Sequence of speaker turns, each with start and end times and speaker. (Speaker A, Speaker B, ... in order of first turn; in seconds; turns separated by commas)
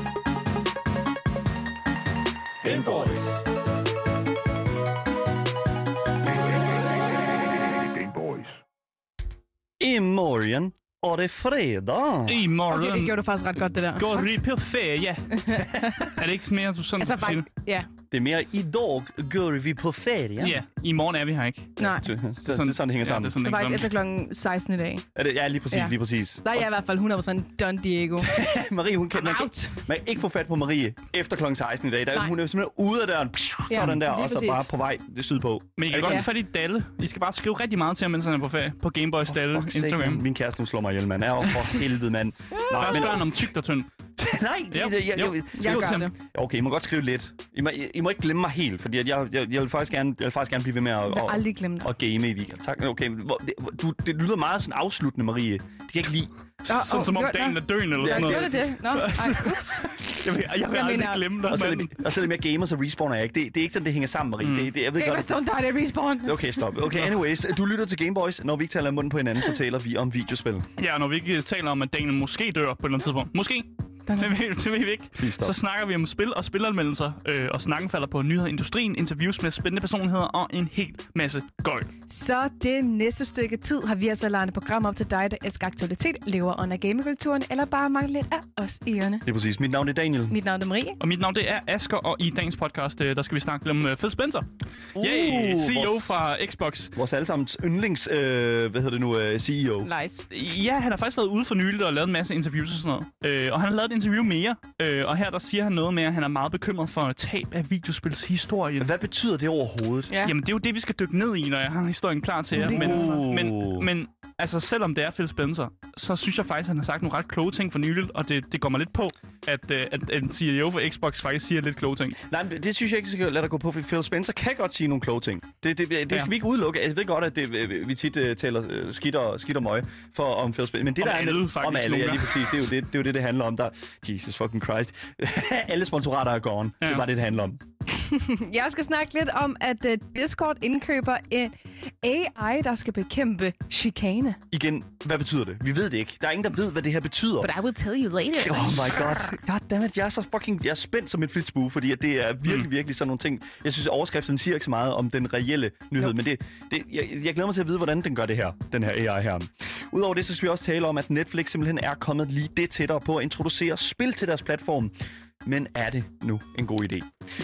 Speaker A: 2.6-3.4, Speaker A: 6.2-8.6, Speaker B: 9.8-12.4, Speaker C: 12.3-13.2, Speaker D: 12.7-14.2, Speaker C: 13.9-17.4, Speaker D: 15.3-16.2, Speaker D: 17.0-17.9, Speaker B: 18.1-20.6, Speaker C: 20.4-21.8, Speaker D: 21.8-22.1, Speaker B: 21.8-23.4, Speaker C: 22.4-23.9, Speaker D: 23.4-25.0, Speaker B: 25.1-26.6, Speaker D: 25.7-28.3, Speaker B: 28.2-36.3, Speaker D: 29.1-29.8, Speaker D: 33.7-34.7, Speaker C: 35.8-40.2, Speaker D: 36.0-36.3, Speaker B: 39.3-43.3, Speaker D: 42.5-43.0, Speaker C: 42.7-43.9, Speaker B: 44.2-56.3, Speaker C: 44.7-46.1, Speaker D: 45.5-46.1, Speaker D: 51.1-51.9, Speaker D: 56.6-61.3, Speaker C: 56.7-62.1, Speaker B: 57.9-58.6, Speaker B: 61.5-65.3, Speaker C: 64.4-64.7, Speaker D: 65.0-66.6, Speaker B: 66.2-70.7, Speaker C: 70.8-81.9, Speaker B: 75.2-75.5, Speaker D: 82.1-89.2, Speaker B: 89.2-90.4, Speaker D: 90.3-91.0, Speaker C: 91.0-94.5, Speaker B: 95.0-96.1, Speaker C: 95.0-96.9, Speaker B: 96.9-99.9, Speaker D: 99.8-100.2, Speaker C: 100.3-108.9, Speaker B: 108.8-110.1, Speaker C: 110.2-122.2, Speaker B: 112.5-113.9, Speaker D: 112.6-113.2, Speaker B: 122.2-137.6, Speaker C: 131.0-132.6, Speaker D: 138.0-144.4, Speaker B: 144.5-147.5, Speaker D: 147.4-149.3, Speaker B: 148.3-164.9, Speaker B: 165.4-167.1